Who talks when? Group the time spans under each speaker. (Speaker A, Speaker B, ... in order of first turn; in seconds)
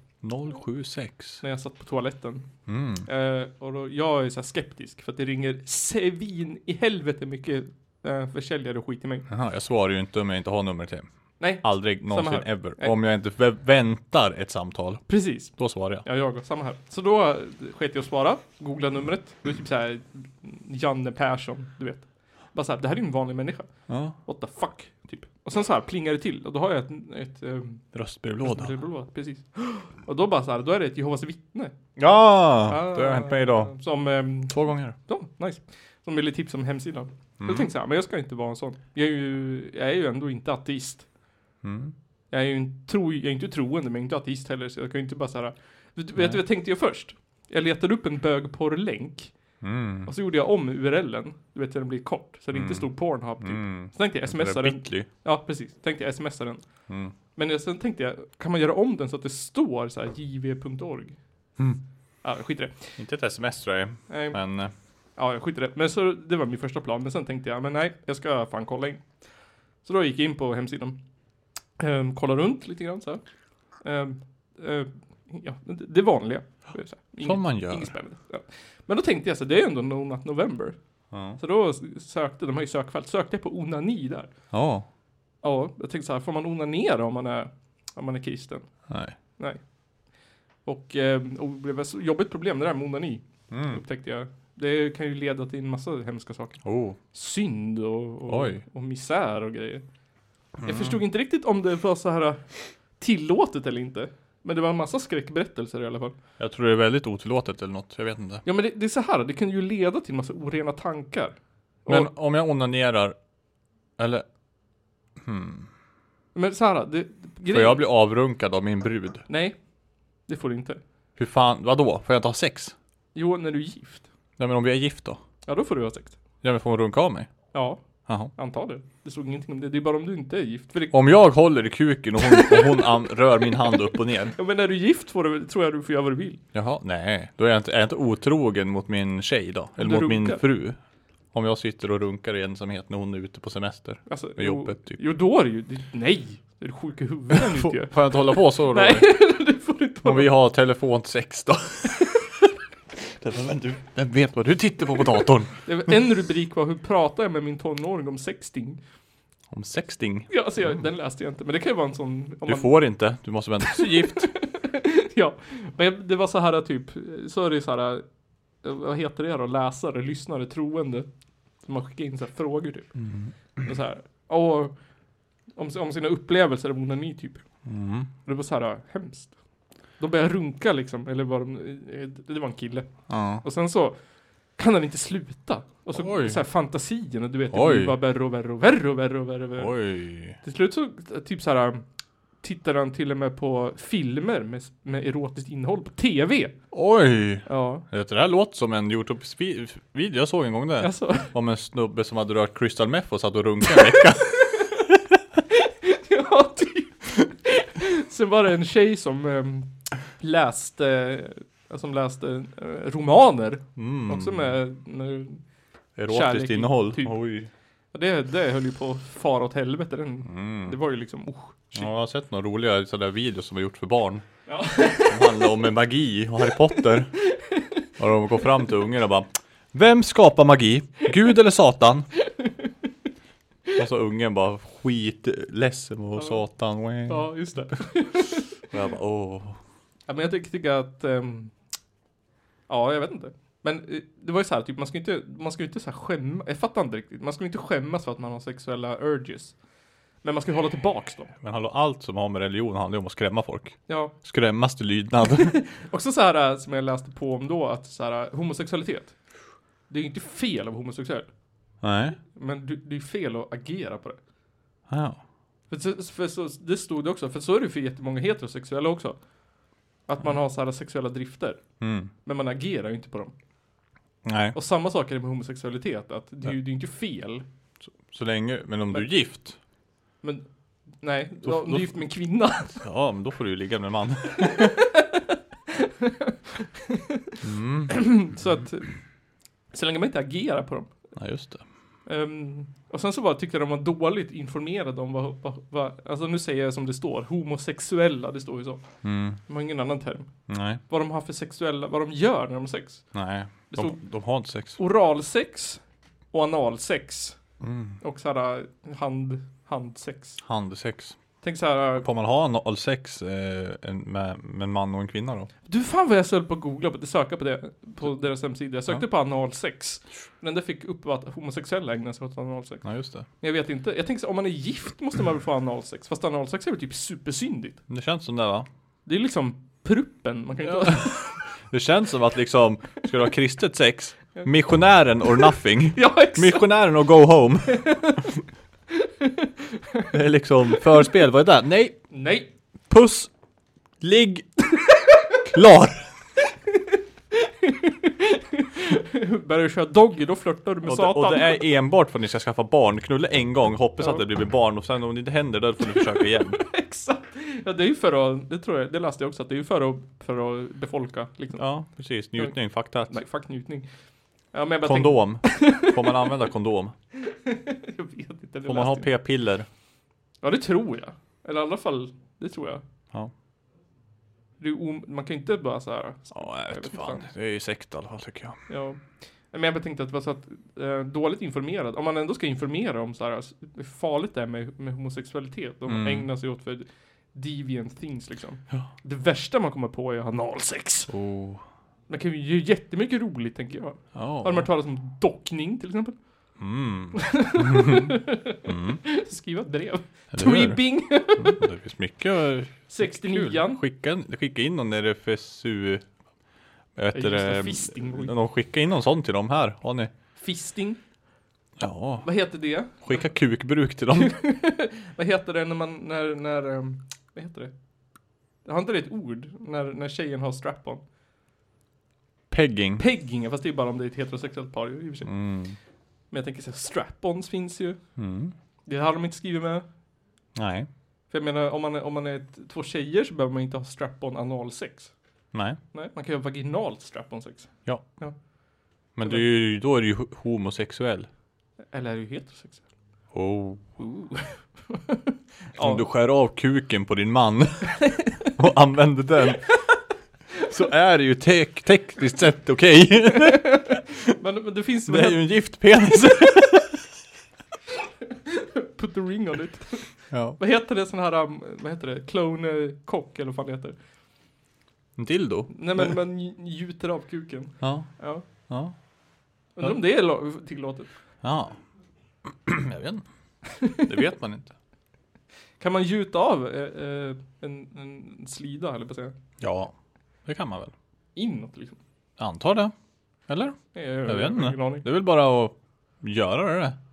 Speaker A: 0.2-1.4, 2.7-3.1, 9.3-16.0, 23.9-24.2, 27.9-28.7, 31.9-33.7, 34.5-35.0, 37.4-37.7, 41.6-41.9, 46.1-46.4, 49.6-50.1, 52.5-55.1, 56.9-57.1, 63.0-64.7, 77.2-77.9, 81.1-81.4, 84.5-84.8, 88.9-89.2, 93.5-93.8, 96.6-97.0, 98.3-98.6, 100.6-101.0, 106.4-108.4, 111.9-113.2, 114.0-114.2, 115.2-115.7, 117.5-119.2, 121.2-122.7, 124.4-125.2, 126.4-127.3, 128.1-128.3, 130.9-134.3, 136.5-140.8, 141.3-145.0, 147.5-149.1, 150.0-152.1, 153.1-155.9, 159.5-160.8, 162.4-164.3, 173.0-173.3, 177.6-178.1, 183.1-183.4, 185.9-186.4, 187.5-187.9, 189.6-190.4, 196.7-204.9, 213.8-214.5, 215.9-217.5, 220.2-220.8, 221.7-224.2, 224.9-227.2, 228.0-232.1, 233.8-237.8, 238.4-239.6, 251.4-255.6, 261.8-262.2, 264.9-265.2, 271.8-272.1, 274.2-274.6, 277.9-279.6, 281.4-282.0, 282.8-284.8, 287.4-288.4, 291.1-291.6, 299.0-299.4, 300.5-300.8, 303.1-304.8, 307.6-308.0, 310.4-311.2, 312.0-315.5, 322.8-323.2, 327.9-328.7, 330.6-338.2, 340.1-342.1, 342.9-343.3, 344.0-344.7, 345.4-346.1, 350.8-356.6, 361.6-363.2, 364.8-366.9, 368.6-369.7, 376.3-378.6, 385.9-386.3, 391.1-391.6, 394.1-394.7, 396.6-399.0, 400.3-406.1, 406.9-410.1, 411.8-412.4, 412.9-414.4, 422.5-423.0, 425.2-425.8, 428.2-428.5, 430.5-430.9, 435.5-435.8, 439.1-441.3, 443.3-443.9, 445.8-449.7, 450.6-454.0, 455.1-457.0, 460.3-460.6, 465.2-466.1, 467.8-468.9, 471.4-471.8, 472.5-473.2, 473.9-474.7, 479.6-479.9, 480.4-480.9, 482.4-482.9, 483.5-486.9
Speaker B: 1.4-2.5, 3.0-9.3, 11.4-12.9, 15.1-23.7, 24.2-27.8, 28.4-31.7, 32.7-41.0, 42.3-49.3, 50.0-56.6, 57.4-61.2, 62.2-63.0, 64.1-64.4, 65.2-69.1, 69.8-71.0, 71.8-73.2, 73.8-80.8, 81.4-84.3, 85.4-88.7, 89.4-89.6, 90.6-99.8, 100.6-106.1, 108.4-112.1, 116.3-117.9, 119.3-119.5, 120.3-120.8, 123.1-124.1, 125.5-126.2, 127.5-127.8, 128.3-131.0, 132.2-132.9, 133.4-136.4, 139.8-140.4, 144.1-150.3, 155.6-158.8, 160.3-162.8, 163.7-168.0, 168.6-171.1, 171.6-172.9, 173.6-174.7, 175.6-177.4, 178.2-179.3, 180.0-182.9, 183.4-184.0, 184.6-189.8, 190.3-191.8, 192.4-196.6, 197.4-197.8, 200.8-201.3, 205.5-215.4, 216.1-217.2, 217.9-221.8, 224.5-225.5, 236.2-236.4, 237.1-238.6, 240.1-241.5, 242.7-249.5, 250.2-251.3, 253.9-254.1, 255.5-259.1, 259.9-261.3, 262.3-264.2, 265.7-269.2, 270.1-271.6, 272.2-273.3, 274.5-277.4, 281.0-282.8, 284.4-286.3, 287.9-289.0, 289.7-290.9, 292.1-298.8, 299.4-300.3, 300.9-303.1, 303.7-304.0, 304.7-305.8, 306.3-307.4, 308.0-310.4, 311.4-312.1, 315.6-322.8, 323.4-327.8, 329.1-331.3, 335.9-336.9, 337.8-338.2, 339.0-339.4, 342.1-342.5, 347.4-351.6, 356.2-361.7, 363.1-363.9, 364.5-366.2, 367.4-369.1, 370.4-372.8, 374.6-377.3, 378.7-391.1, 392.1-396.1, 397.1-401.6, 402.9-403.8, 407.1-408.3, 410.4-411.0, 412.2-413.1, 414.1-417.7, 418.6-421.0, 423.0-425.3, 426.3-428.0, 428.9-429.9, 431.3-435.1, 435.9-438.3, 441.9-442.9, 444.0-445.2, 445.7-446.0, 454.4-455.5, 458.4-460.1, 460.6-463.9, 465.7-468.4, 469.8-471.1, 475.8-479.3, 481.4-482.0, 483.9-485.1